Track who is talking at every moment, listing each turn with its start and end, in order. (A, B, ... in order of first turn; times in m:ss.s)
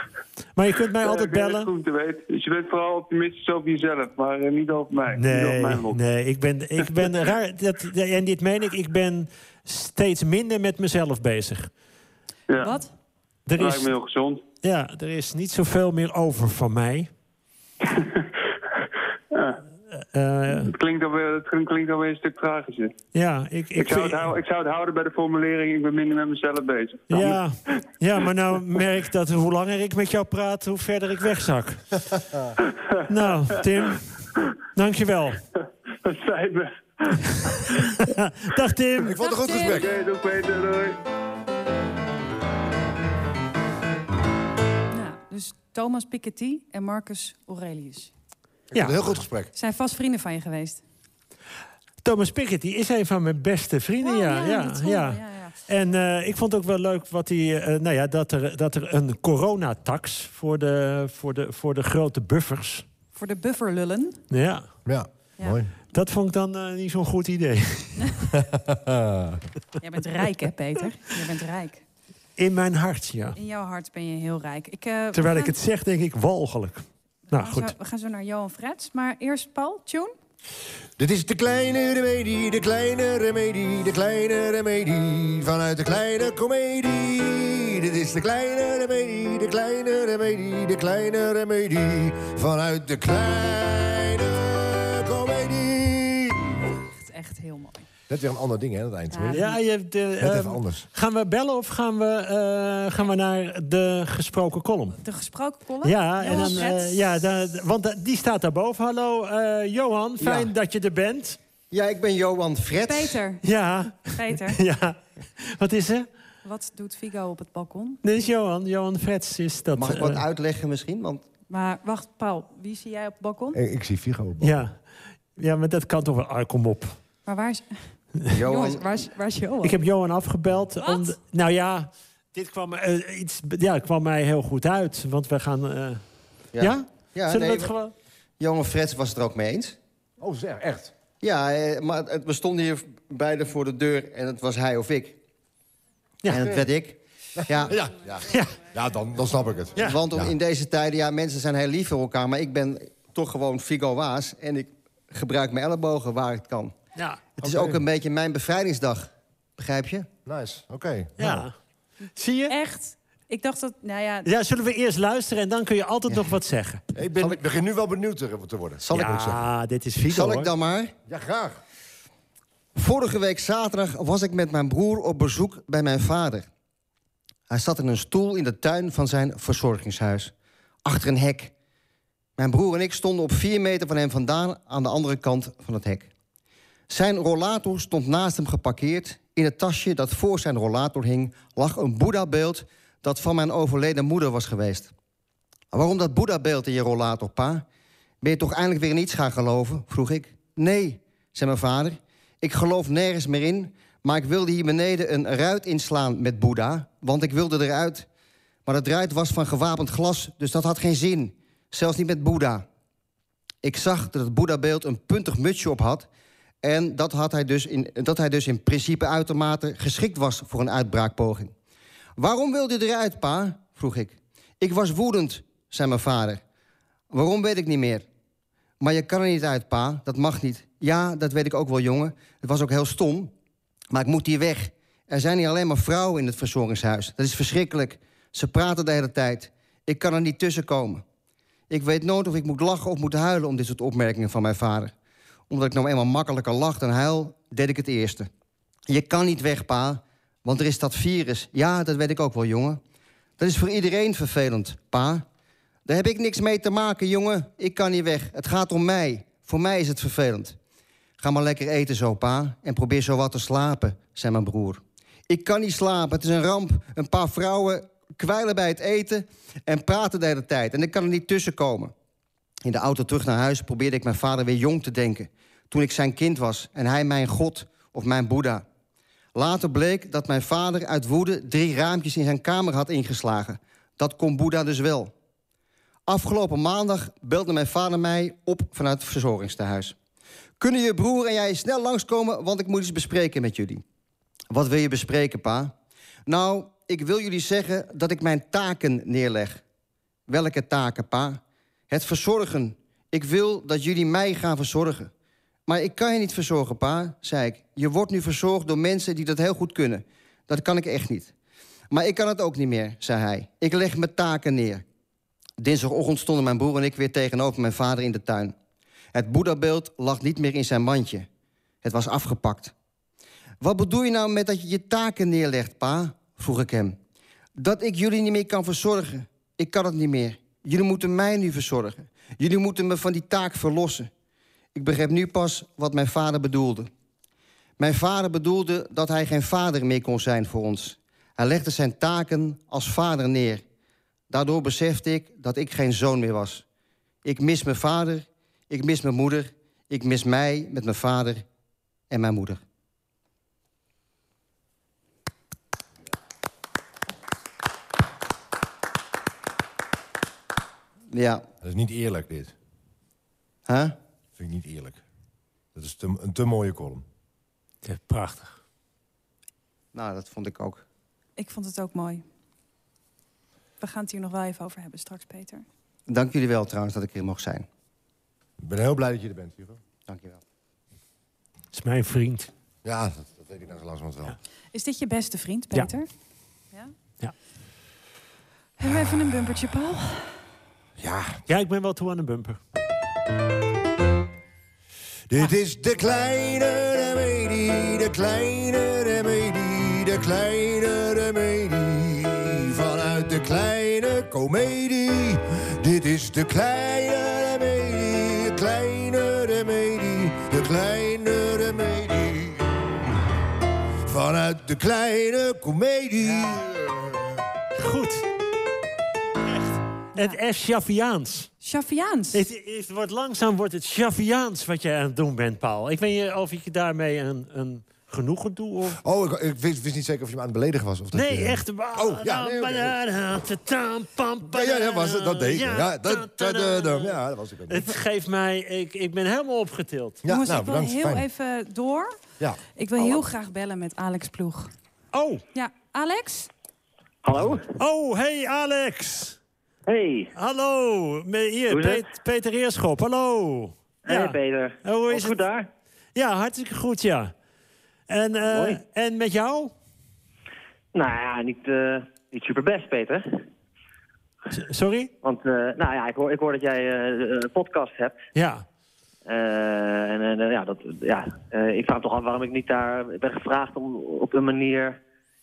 0:00.6-0:01.7 A
0:01.0-0:06.0 B
0:05.1-0:11.7 A
0:12.5-0:12.8 B
0:12.6-0:12.9 C
0:13.5-0:13.9 A
0:13.6-0:14.4 B
0:14.6-0:17.1 A
0:17.9-0:18.4 B
0:19.3-0:19.6 B
0:20.0-0:20.7 A
0:20.5-0:22.9 B
0:23.1-0:24.3 A
0:23.8-0:27.4 B
0:27.1-0:32.2 A
0:32.6-0:34.4 B
0:33.1-0:34.1 A
0:34.8-0:35.4 A
0:35.6-0:38.0 B
0:38.0-0:39.2 A
0:39.0-0:39.9 D
0:39.2-0:39.8 C
0:39.6-0:41.0 B
0:44.9-0:48.1 C
0:48.7-0:49.5 D
0:48.7-0:49.0 A
0:49.6-0:50.8 C
0:52.0-1:02.8 A
0:54.0-0:55.6 C
1:03.2-1:04.2 C
1:04.3-1:04.7 A
1:04.8-1:05.7 D
1:05.9-1:08.2 A
1:08.4-1:09.4 D
1:09.8-1:11.8 C
1:12.4-1:13.4 A
1:13.4-1:15.6 C
1:15.1-1:17.7 A
1:17.3-1:20.1 C
1:21.0-1:36.6 D
1:36.9-1:37.9 C
1:38.1-1:39.6 D
1:39.1-1:39.6 C
1:39.3-1:45.0 A
1:40.2-1:40.9 D
1:45.0-1:47.0 C
1:45.8-1:51.4 A
1:50.2-1:50.5 E
1:51.7-1:53.2 E
1:52.8-1:53.4 C
1:53.4-1:56.1 A
1:54.1-1:54.6 C
1:56.4-1:58.0 C
1:58.0-2:00.2 A
1:59.8-2:01.2 E
2:01.5-2:03.6 C
2:03.5-2:04.6 D
2:04.4-2:04.8 A
2:05.4-2:07.0 A
2:07.2-2:09.8 C
2:08.3-2:08.9 E
2:09.6-2:16.0 A
2:10.8-2:11.1 C
2:16.6-2:17.7 E
2:16.6-2:17.9 A
2:18.4-2:19.8 E
2:20.2-2:20.9 D
2:21.2-2:25.2 E
2:26.2-2:26.5 A
2:26.3-2:27.7 E
2:27.4-2:30.4 D
2:28.3-2:28.6 A
2:29.8-2:36.7 E
2:37.0-2:37.2 A
2:37.4-2:40.1 E
2:37.4-2:37.8 D
2:40.3-2:41.5 D
2:41.2-2:41.6 A
2:42.2-2:42.5 A
2:42.5-2:44.3 C
2:44.2-2:46.8 A
2:47.0-2:49.3 D
2:48.9-2:49.4 E
2:48.9-2:50.5 A
2:50.1-2:50.9 E
2:51.1-2:51.6 D
2:52.8-2:56.5 E
2:57.5-3:00.3 E
3:00.8-3:01.5 E
3:02.4-3:06.1 E
3:06.9-3:14.9 E
3:15.7-3:17.6 E
3:18.2-3:28.1 E
3:28.7-3:32.6 E
3:33.6-3:36.1 E
3:36.6-3:41.5 E
3:42.2-3:46.4 E
3:47.1-3:48.1 E
3:48.8-3:53.3 E
3:53.9-4:01.0 E
4:01.7-4:04.9 E
4:05.5-4:08.3 E
4:08.9-4:12.8 E
4:13.4-4:15.2 E
4:15.9-4:20.6 E
4:21.2-4:31.9 E
4:32.6-4:38.6 E
4:39.4-4:45.1 E
4:46.1-4:50.0 E
4:50.6-4:53.8 E
4:54.5-4:55.7 E
4:56.3-4:59.6 E
5:00.3-5:05.1 E
5:05.7-5:11.3 E
5:11.9-5:14.8 E
5:15.6-5:18.5 E
5:19.1-5:21.3 E
5:21.8-5:22.7 E
5:23.6-5:27.0 E
5:27.6-5:34.1 E
5:34.8-5:36.9 E
5:37.8-5:43.6 E
5:44.3-5:46.6 E
5:47.2-5:51.4 E
5:52.1-5:52.6 E
6:01.1-6:01.5 E
6:01.6-6:02.5 D
6:03.7-6:04.0 E
6:04.4-6:05.0 D
6:05.8-6:07.0 D
6:07.8-6:08.6 A
6:09.9-6:10.8 E
6:11.4-6:12.2 C
6:13.8-6:15.6 C
6:16.1-6:17.7 E
6:18.6-6:19.8 D
6:20.1-6:20.4 E
6:21.7-6:22.5 A
6:22.8-6:24.4 D
6:24.7-6:26.1 C
6:28.8-6:30.4 C
6:31.0-6:31.4 D
6:31.5-6:32.6 A
6:35.3-6:53.1 D
6:54.0-6:57.4 D
6:57.8-6:58.2 A
6:59.5-7:01.5 A
7:01.6-7:02.4 C
7:02.3-7:09.0 A
7:09.0-7:13.0 D
7:11.1-7:17.2 A
7:14.5-7:17.9 D
7:17.7-7:20.2 A
7:20.2-7:21.2 D
7:20.3-7:22.2 C
7:22.8-7:24.7 C
7:25.1-7:25.4 A
7:25.5-7:26.5 C
7:27.2-7:27.7 F
7:27.3-7:27.6 D
7:27.8-7:29.4 A
7:29.9-7:30.3 F
7:30.4-7:35.4 A
7:31.7-7:32.1 F
7:34.1-7:35.7 F
7:36.2-7:37.3 A
7:38.1-7:39.7 A
7:38.5-7:38.8 F
7:40.9-7:43.5 F
7:44.5-7:45.1 A
7:45.2-7:48.2 F
7:48.4-7:48.6 A
7:49.3-7:55.0 F